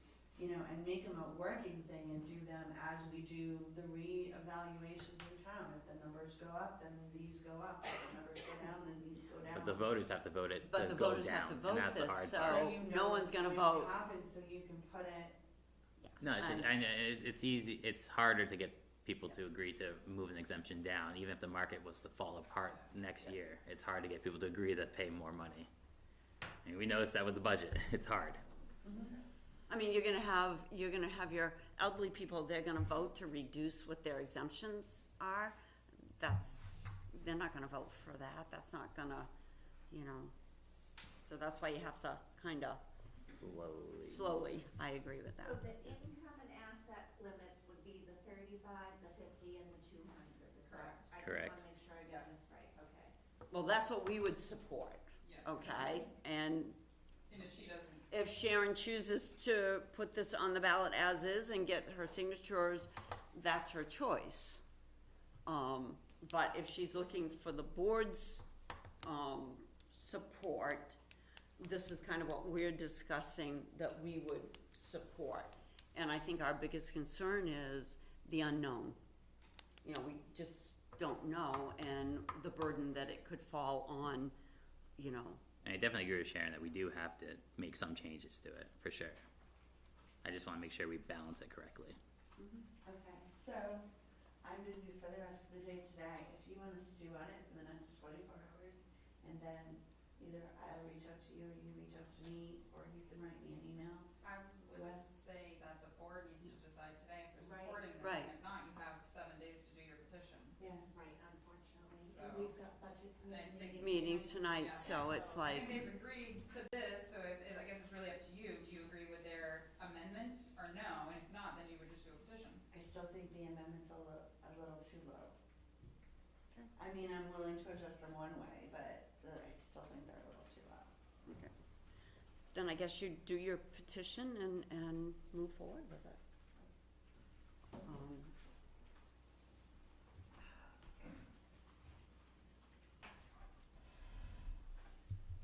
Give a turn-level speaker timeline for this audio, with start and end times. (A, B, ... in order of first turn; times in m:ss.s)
0:00.3-0:09.9 A
0:09.5-0:12.7 B
0:10.6-0:14.0 C
0:12.4-0:15.4 A
0:16.0-0:16.7 C
0:16.2-0:25.7 B
0:26.6-0:28.4 B
0:29.7-0:35.6 C
0:36.2-0:39.3 C
0:39.9-0:40.3 C
0:41.2-0:42.8 C
0:43.3-0:44.4 B
0:44.0-0:45.6 C
0:45.4-0:53.1 D
0:50.7-0:51.0 E
0:51.2-0:51.6 B
0:53.5-0:56.8 C
0:55.2-0:56.0 E
0:55.8-0:56.1 D
0:57.3-0:58.2 E
0:58.1-1:04.6 C
1:05.4-1:08.4 C
1:09.0-1:11.0 C
1:11.6-1:19.0 C
1:19.8-1:24.3 C
1:25.0-1:25.4 C
1:25.6-1:29.2 B
1:30.2-1:32.0 B
1:32.4-1:32.7 C
1:32.8-1:33.8 A
1:34.4-1:44.1 A
1:44.2-1:50.6 E
1:44.7-1:45.0 A
1:47.4-1:48.0 D
1:48.0-1:48.3 C
1:50.6-1:50.8 A
1:50.9-1:54.9 D
1:52.0-1:52.6 E
1:53.2-2:02.6 E
1:53.8-1:55.9 C
2:02.7-2:05.4 A
2:06.8-2:10.9 A
2:11.2-2:11.5 C
2:12.5-2:16.2 C
2:17.8-2:18.3 C